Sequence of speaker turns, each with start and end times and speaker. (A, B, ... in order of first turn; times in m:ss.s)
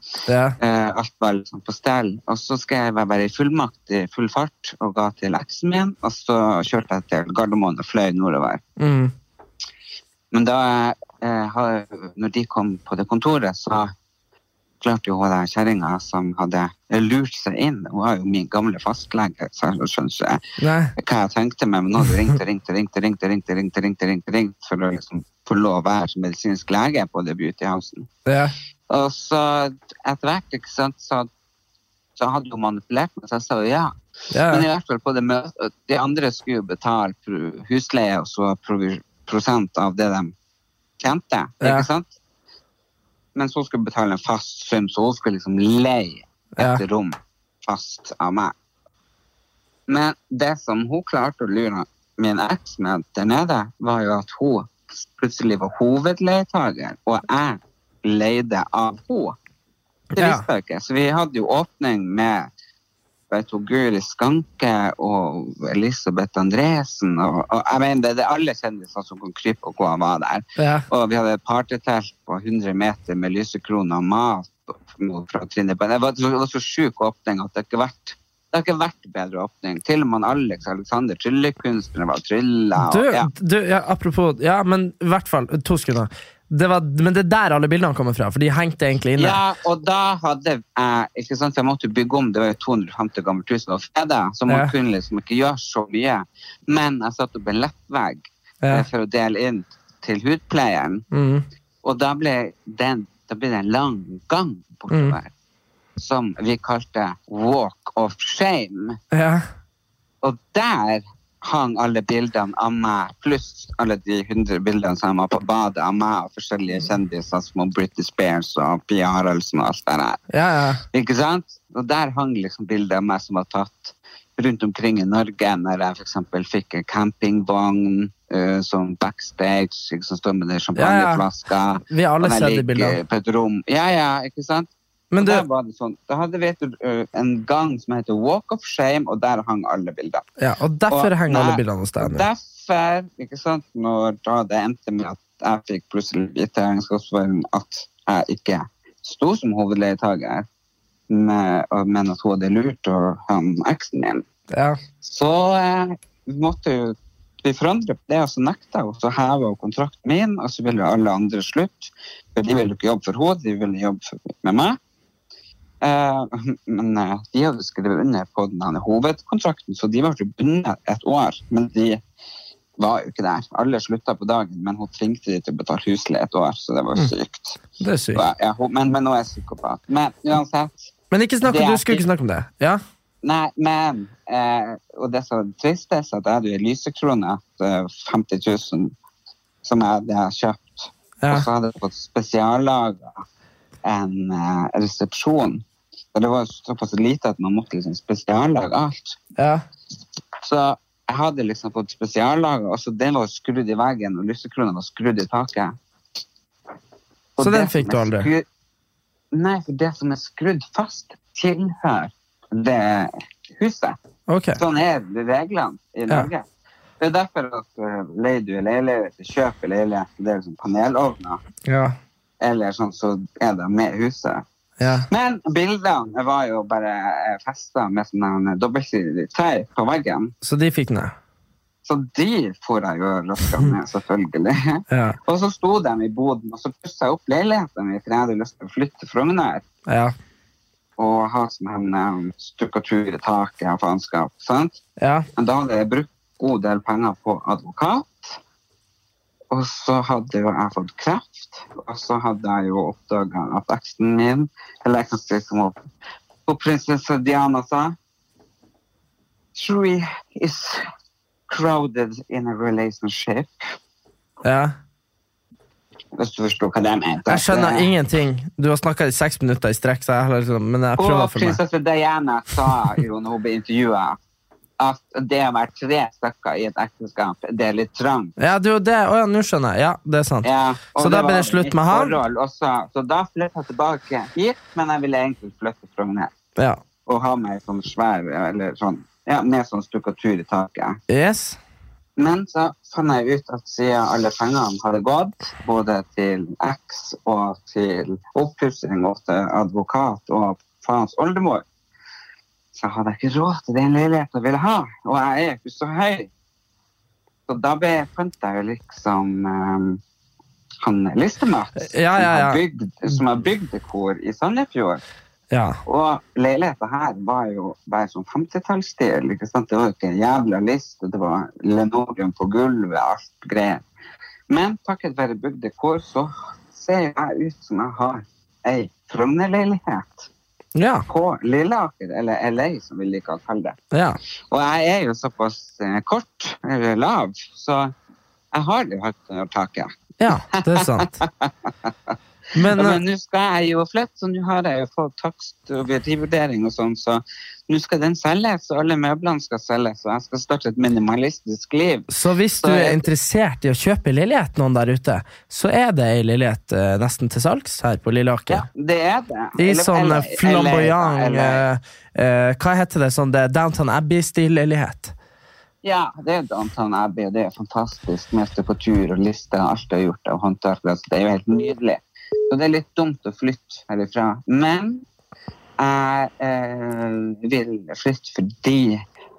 0:00.3-0:00.6 A
0:00.6-0:08.6 B
0:08.8-0:09.1 A
0:10.3-0:13.9 B
0:14.8-0:20.4 B
0:20.6-0:20.9 A
0:21.0-0:28.1 B
0:28.2-0:28.5 A
0:28.9-0:31.3 B
0:32.2-0:33.9 B
0:34.3-0:34.6 A
0:34.5-0:40.3 B
0:41.0-0:42.1 B
0:41.6-0:41.9 A
0:43.3-0:48.5 B
0:46.6-0:46.8 A
0:49.9-0:59.4 B
1:00.1-1:00.4 A
1:00.2-1:02.5 B
1:03.3-1:23.3 B
1:10.6-1:10.9 A
1:22.8-1:29.4 A
1:29.2-1:41.0 B
1:41.1-1:41.4 A
1:41.8-1:45.3 B
1:44.9-1:45.2 A
1:46.0-1:49.0 B
1:49.1-1:49.4 A
1:50.2-2:00.2 B
2:00.3-2:00.8 A
2:00.9-2:20.2 B
2:10.8-2:11.2 A
2:11.8-2:13.0 A
2:15.1-2:15.4 A
2:20.4-2:22.2 A
2:20.9-2:30.4 B
2:31.1-2:34.2 B
2:34.5-2:34.8 A
2:35.0-2:44.8 B
2:45.8-2:52.0 B
2:52.8-2:57.6 B
2:57.8-2:58.2 A
2:58.1-3:00.9 B
3:01.1-3:02.8 A
3:01.4-3:02.0 B
3:03.2-3:08.9 B
3:09.6-3:13.2 B
3:11.2-3:11.5 A
3:13.8-3:19.2 B
3:19.4-3:19.6 A
3:20.4-3:25.7 B
3:27.4-3:28.4 B
3:27.4-3:28.3 A
3:29.3-3:34.0 B
3:34.3-3:34.6 A
3:34.6-3:36.4 B
3:37.0-3:41.4 B
3:41.6-3:42.0 A
3:42.4-3:44.4 B
3:44.8-3:45.1 A
3:45.1-3:50.3 B
3:50.4-3:51.1 A
3:51.8-3:59.6 B
3:54.9-3:55.2 A
3:59.9-4:00.1 A
4:01.0-4:04.8 B
4:05.0-4:05.3 A
4:05.4-4:08.4 B
4:09.5-4:15.8 B
4:16.5-4:17.9 B
4:19.5-4:20.8 B
4:21.5-4:23.5 B
4:24.4-4:24.7 A
4:26.2-4:27.9 B
4:27.3-4:31.6 A
4:31.0-4:34.2 B
4:34.8-4:38.3 B
4:38.4-4:42.2 A
4:40.4-4:46.3 B
4:47.0-4:51.0 B
4:51.1-4:51.6 A
4:52.2-5:01.6 B
5:02.7-5:06.3 B
5:07.5-5:10.0 B
5:10.8-5:15.0 B
5:11.8-5:12.6 A
5:15.5-5:15.8 A
5:15.8-5:23.8 B
5:24.5-5:30.3 B
5:30.8-5:31.0 A
5:31.1-5:33.8 B
5:33.9-5:34.2 A
5:34.5-5:37.9 B
5:38.5-5:39.9 B
5:40.2-5:41.2 A
5:40.4-5:42.1 B
5:42.5-5:43.0 A
5:42.7-5:52.1 B
5:52.1-5:58.7 A
5:52.6-5:53.0 B
5:58.5-6:01.6 B
5:59.6-6:05.1 A
6:05.8-6:15.0 B
6:15.8-6:19.0 B